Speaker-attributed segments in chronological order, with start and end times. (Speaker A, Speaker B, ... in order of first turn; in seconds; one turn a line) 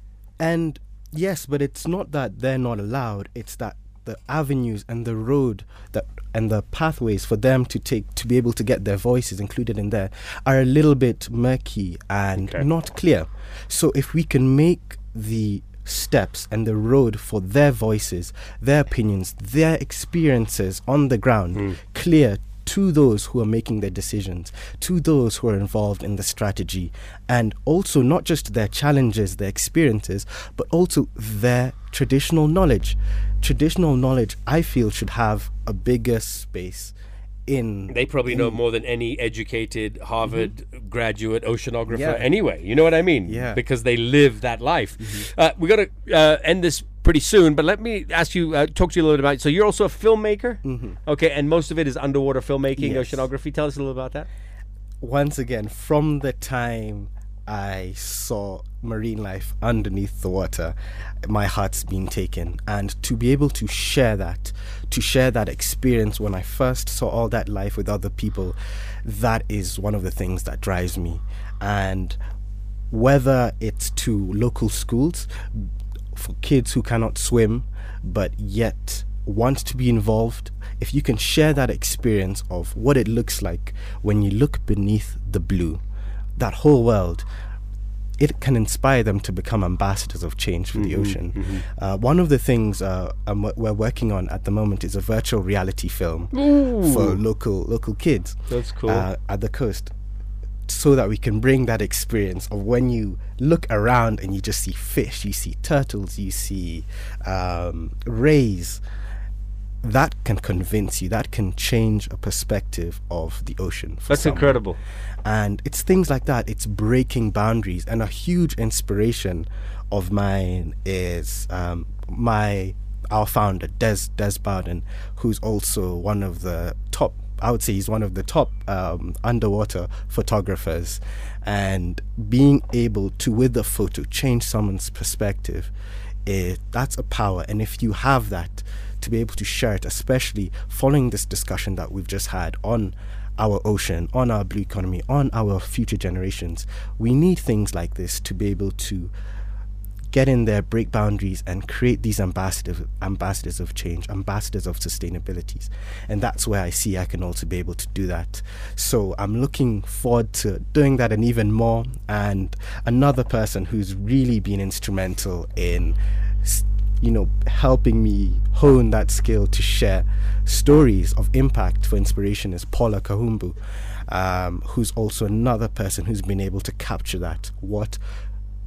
Speaker A: 0.4-36.9
Speaker A: 37.5-38.6
Speaker B: 37.9-54.3
Speaker A: 41.9-42.3
Speaker A: 43.3-43.6
Speaker A: 45.0-45.3
Speaker A: 50.6-51.0
Speaker A: 52.8-53.2
Speaker A: 55.0-72.2
Speaker A: 72.9-85.8
Speaker A: 86.4-87.2
Speaker A: 88.2-99.9
Speaker B: 90.7-91.6
Speaker B: 96.3-97.2
Speaker B: 98.5-99.0
Speaker A: 100.7-108.8
Speaker A: 109.8-114.6
Speaker B: 114.1-114.8
Speaker A: 115.2-135.7
Speaker A: 136.2-149.1
Speaker A: 150.1-178.0